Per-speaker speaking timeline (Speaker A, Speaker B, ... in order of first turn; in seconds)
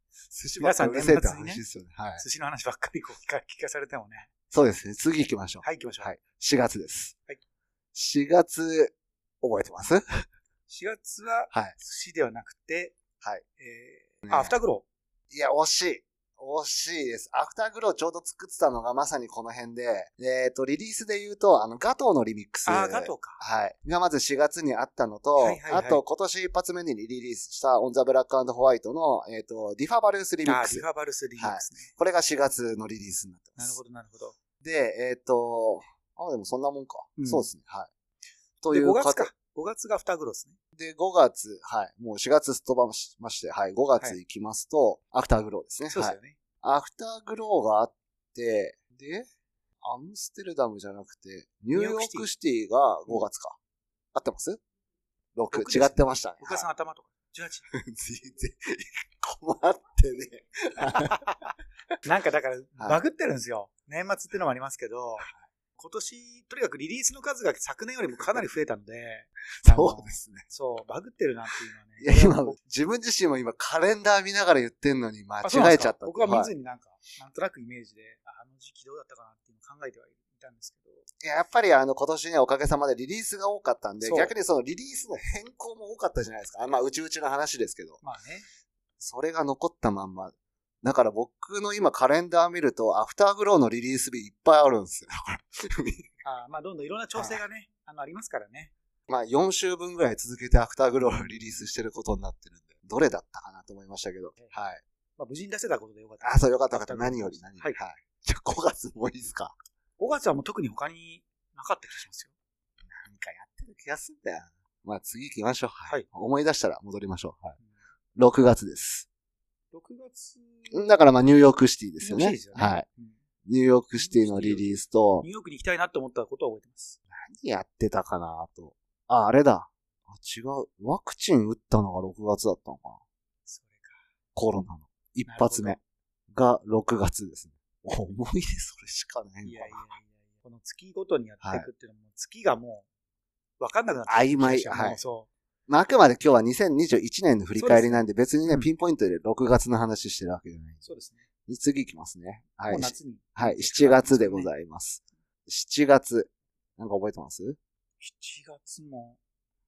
Speaker A: 0.3-2.2, 4.5-7.1, 7.9-10.0, 11.5-11.8, 14.2-14.6, 15.3-30.9, 31.4-33.8, 34.6-37.9, 38.6-39.3, 40.8-49.2, 49.8-53.6, 54.1-54.6, 55.4-56.7, 57.7-61.2, 69.6-70.5, 72.0-76.5, 81.2-88.0, 89.0-96.1, 97.1-97.4, 99.1-104.8, 106.2-109.5, 113.0-117.6, 118.2-119.1, 120.7-122.8, 123.5-125.3, 127.1-133.0, 134.3-135.8, 136.3-139.8, 141.4-141.7, 144.1-145.0, 145.7-150.8, 151.5-157.6
Speaker B: 0.6-1.6, 2.2-4.3, 5.6-6.1, 10.7-13.0, 13.6-14.8, 22.6-23.4, 25.4-26.0, 30.4-31.9, 33.5-34.3, 37.2-37.5, 38.7-40.5, 45.9-46.4, 51.7-52.3, 55.5-57.6, 61.0-61.5, 62.0-72.6, 75.4-81.0, 84.0-84.3, 88.0-88.5, 96.2-98.7, 101.0-101.7, 105.2-107.8, 110.0-112.3, 119.7-120.9, 122.0-123.2, 123.9-127.0, 133.4-134.0, 135.3-135.8, 139.4-142.8, 143.6-145.3, 147.6-148.7, 150.8-151.2, 152.7-154.5, 158.0-159.2